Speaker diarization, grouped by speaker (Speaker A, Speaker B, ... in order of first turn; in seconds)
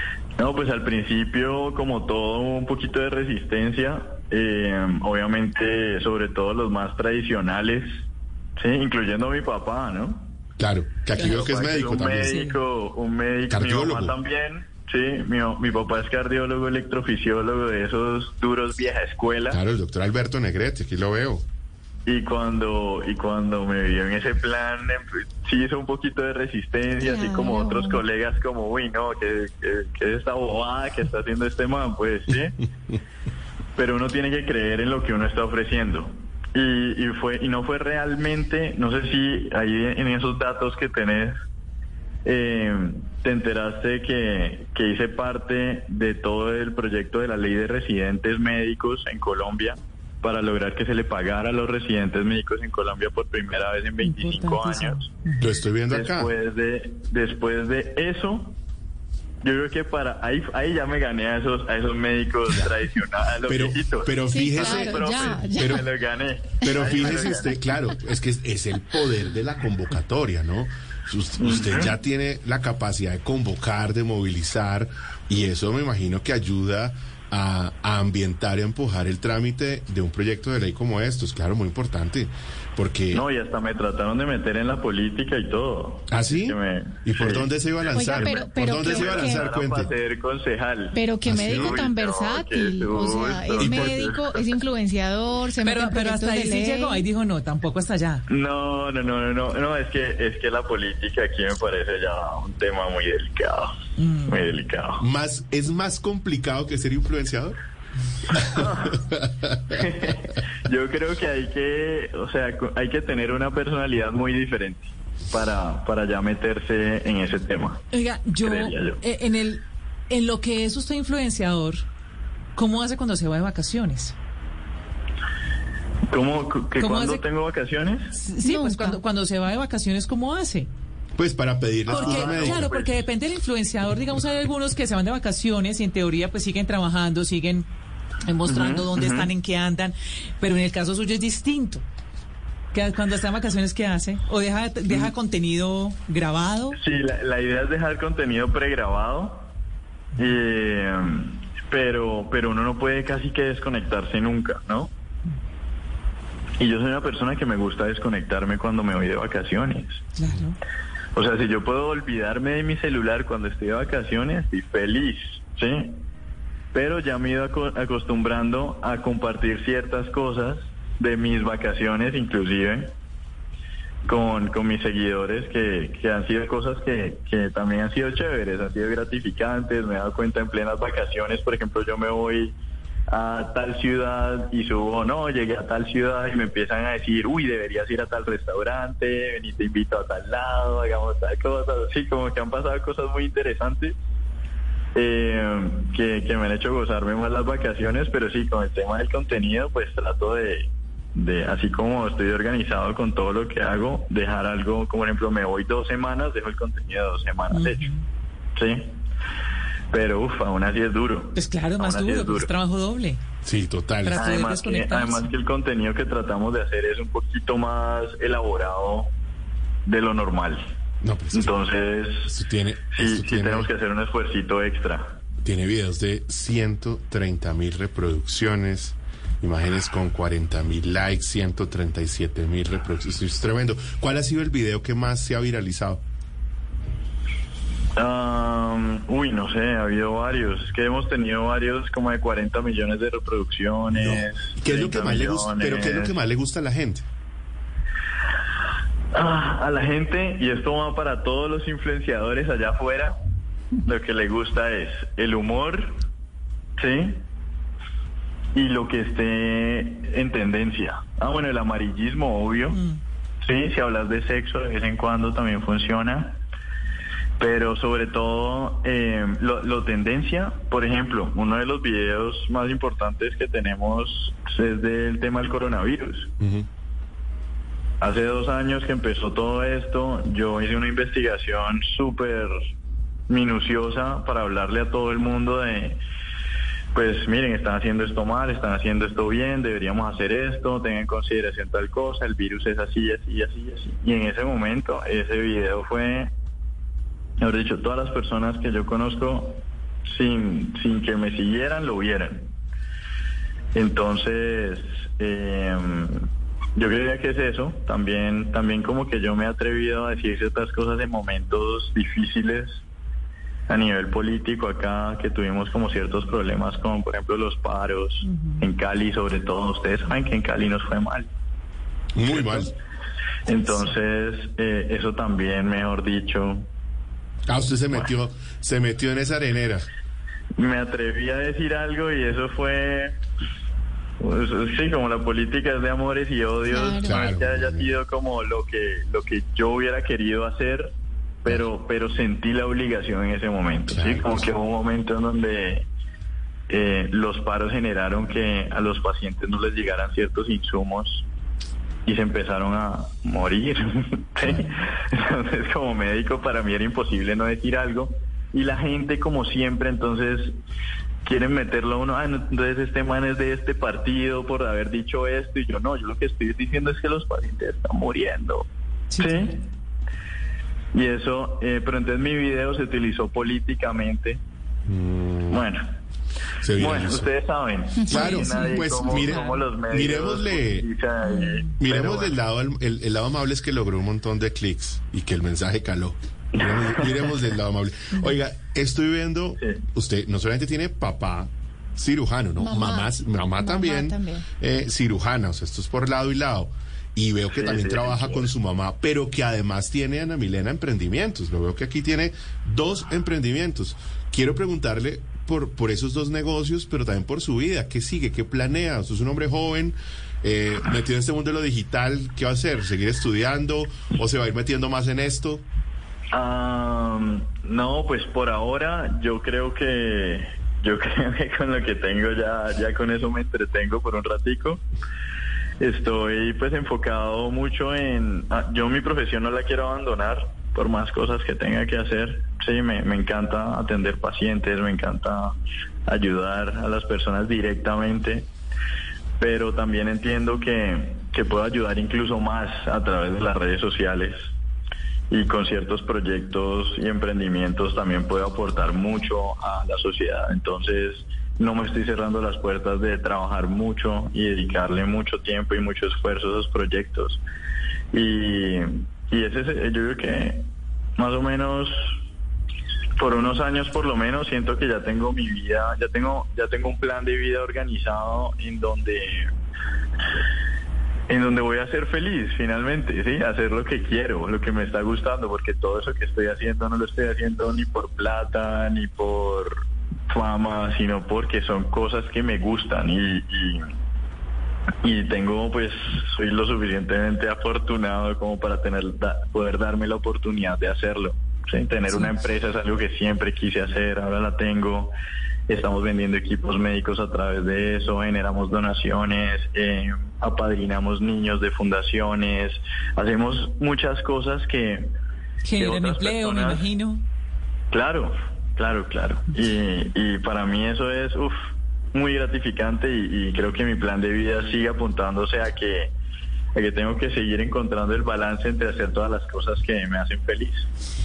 Speaker A: 0.4-8.0, 8.6-10.3, 11.2-19.6, 22.1-32.6, 33.8-41.4, 42.2-55.1, 55.9-58.6, 59.4-67.6, 71.4-72.0, 83.1-94.5, 98.3-105.0, 108.3-109.1, 109.7-117.8, 118.4-119.0, 126.1-128.2, 131.9-132.9, 138.5-139.3, 146.8-149.5, 150.2-154.9, 156.6-160.0, 161.2-166.0, 166.7-172.9, 174.1-182.6, 183.1-194.0, 194.9-207.9, 208.6-209.0, 209.9-212.5, 214.2-219.1, 219.9-220.6, 221.3-222.3, 222.9-225.2, 238.0-246.2, 249.1-253.2, 253.8-256.0, 256.8-257.2, 258.5-262.8, 263.4-266.4, 267.4-276.3, 278.0-282.5, 283.3-286.0, 286.9-296.3, 297.4-302.5, 303.8-312.8, 313.7-321.3, 322.3-322.7, 323.5-326.7, 330.6-333.2, 334.2-340.9, 341.4-345.9, 346.7-351.2, 352.1-360.6, 361.2-368.7, 369.2-369.6, 370.9-374.4, 375.5-375.9, 376.8-382.4, 386.6-387.3, 389.6-389.9, 397.5-398.5, 416.3-424.8, 425.8-438.5, 439.4-444.5, 445.3-457.4, 458.1-460.7, 461.2-462.1, 463.2-469.5, 471.3-483.9, 485.0-495.1, 495.7-505.1, 505.8-506.8, 507.9-516.1, 516.8-520.9
Speaker B: 10.6-12.5, 13.5-14.1, 19.5-21.4, 55.4-56.3, 63.5-65.9, 66.6-83.2, 86.1-89.9, 91.2-91.8, 93.6-94.0, 105.0-107.6, 108.3-110.1, 131.2-132.7, 213.4-214.2, 221.0-221.7, 222.3-223.7, 225.4-236.0, 243.9-247.1, 276.4-276.7, 322.1-322.7, 327.5-329.9, 337.0-337.9, 343.9-344.5, 354.4-354.7, 374.9-375.6, 376.6-377.3, 378.1-380.9, 381.8-415.6
Speaker C: 12.3-12.6, 95.6-98.2, 104.0-104.4, 117.9-121.8, 122.6-124.2, 126.8-127.2, 128.2-130.7, 131.9-137.7, 138.3-141.8, 142.7-146.8, 160.2-160.6, 207.5-208.0, 211.3-213.2, 214.0-215.3, 262.7-263.0, 318.3-318.6, 369.1-369.5, 505.6-507.2
Speaker D: 27.0-28.0, 54.0-55.0, 64.3-65.8, 66.7-67.2, 87.9-89.5, 90.9-97.0, 128.4-129.0, 336.7-337.2, 378.0-378.6, 381.3-381.6, 392.6-394.5